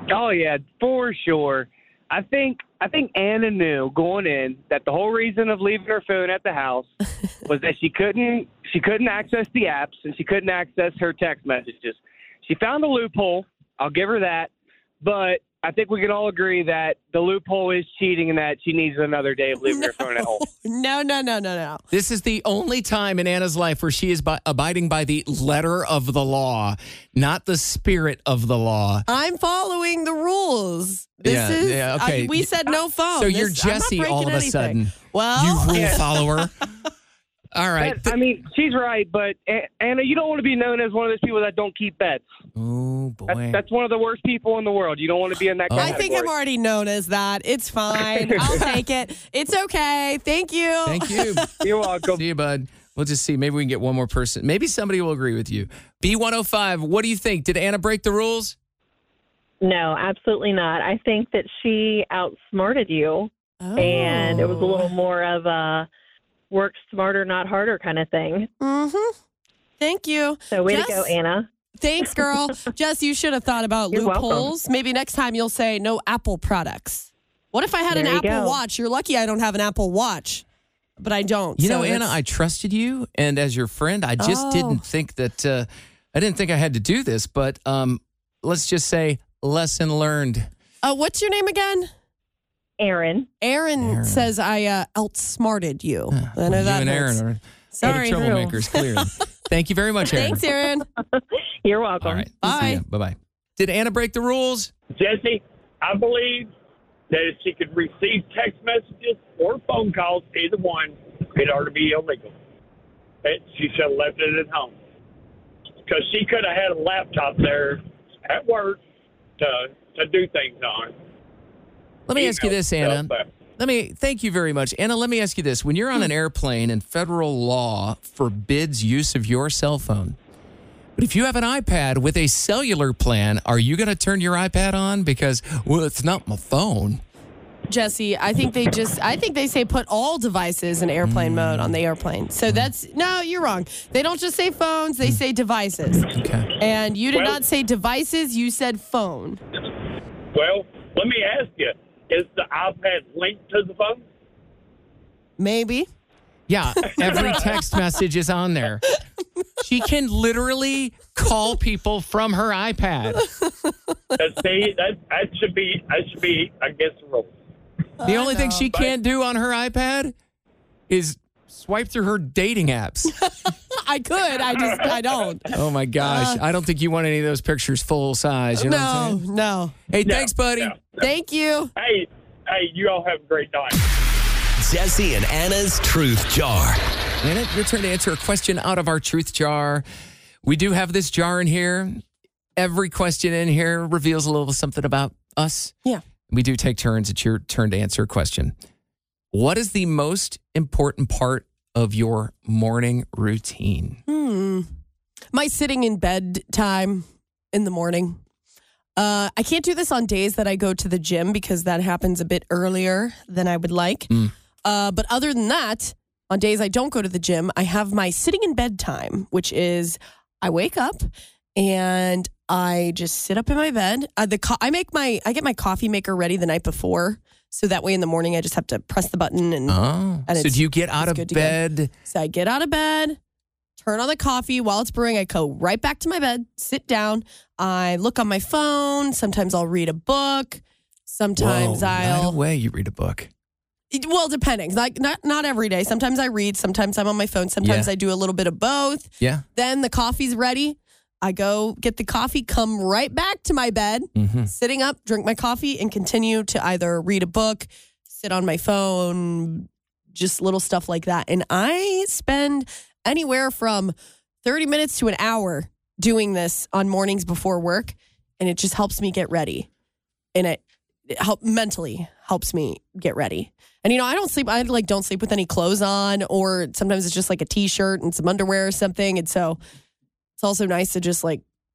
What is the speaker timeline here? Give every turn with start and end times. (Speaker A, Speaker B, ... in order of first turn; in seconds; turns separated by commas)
Speaker A: 0.1-6.9, Speaker A: 7.5-14.5, Speaker A: 15.0-20.4, Speaker B: 19.6-21.8, Speaker C: 21.9-29.1, Speaker B: 29.1-36.2, Speaker C: 31.2-36.5, Speaker A: 35.7-36.0, Speaker C: 37.5-38.1, Speaker A: 37.8-42.2, Speaker C: 42.5-43.6, Speaker A: 43.3-46.3, Speaker C: 45.7-46.0, Speaker B: 45.7-51.5, Speaker A: 48.2-48.7, Speaker C: 50.8-58.5, Speaker A: 51.6-52.2, Speaker D: 59.6-65.9, Speaker B: 63.6-64.9, Speaker D: 66.5-68.5, Speaker B: 68.6-69.1, Speaker B: 69.8-71.1, Speaker D: 70.5-71.5, Speaker B: 71.8-80.4, Speaker D: 73.9-74.5, Speaker D: 77.9-78.6, Speaker B: 81.0-82.2, Speaker C: 81.6-90.5, Speaker B: 84.2-84.8, Speaker B: 90.8-91.9, Speaker D: 92.8-93.3, Speaker B: 93.4-97.2, Speaker C: 93.8-94.3, Speaker C: 96.1-100.4, Speaker B: 97.7-99.1, Speaker B: 100.1-100.8, Speaker D: 101.1-102.3, Speaker C: 102.0-104.7, Speaker B: 102.4-102.8, Speaker E: 105.0-106.5, Speaker E: 107.1-112.3, Speaker E: 113.2-114.8, Speaker E: 115.8-118.8, Speaker E: 119.4-120.9, Speaker C: 122.1-130.2, Speaker E: 122.1-123.2, Speaker C: 130.9-137.0, Speaker B: 137.7-149.4, Speaker C: 141.0-141.8, Speaker C: 146.1-146.5, Speaker E: 147.1-147.4, Speaker E: 150.3-154.0, Speaker B: 155.4-155.9, Speaker C: 156.5-158.8, Speaker B: 156.8-157.5, Speaker C: 159.6-163.3, Speaker B: 163.2-164.2, Speaker E: 164.2-167.3, Speaker B: 168.0-168.7, Speaker C: 168.0-170.1, Speaker C: 170.9-173.1, Speaker B: 173.2-176.4, Speaker E: 174.6-174.9, Speaker C: 175.5-179.2, Speaker B: 178.5-179.7, Speaker C: 179.9-180.7, Speaker E: 180.0-181.0, Speaker B: 181.0-181.7, Speaker E: 181.8-183.8, Speaker F: 184.6-186.8, Speaker C: 187.2-189.8, Speaker C: 190.4-192.0, Speaker C: 192.6-195.7, Speaker C: 196.3-198.5, Speaker C: 199.3-204.0, Speaker B: 204.1-204.7, Speaker B: 205.3-208.2, Speaker B: 208.9-214.1, Speaker B: 214.6-233.2, Speaker C: 229.7-231.9, Speaker B: 233.8-242.4, Speaker C: 241.4-243.3, Speaker B: 243.9-269.7, Speaker C: 247.6-247.9, Speaker C: 254.1-254.5, Speaker B: 270.3-279.6, Speaker B: 280.4-281.4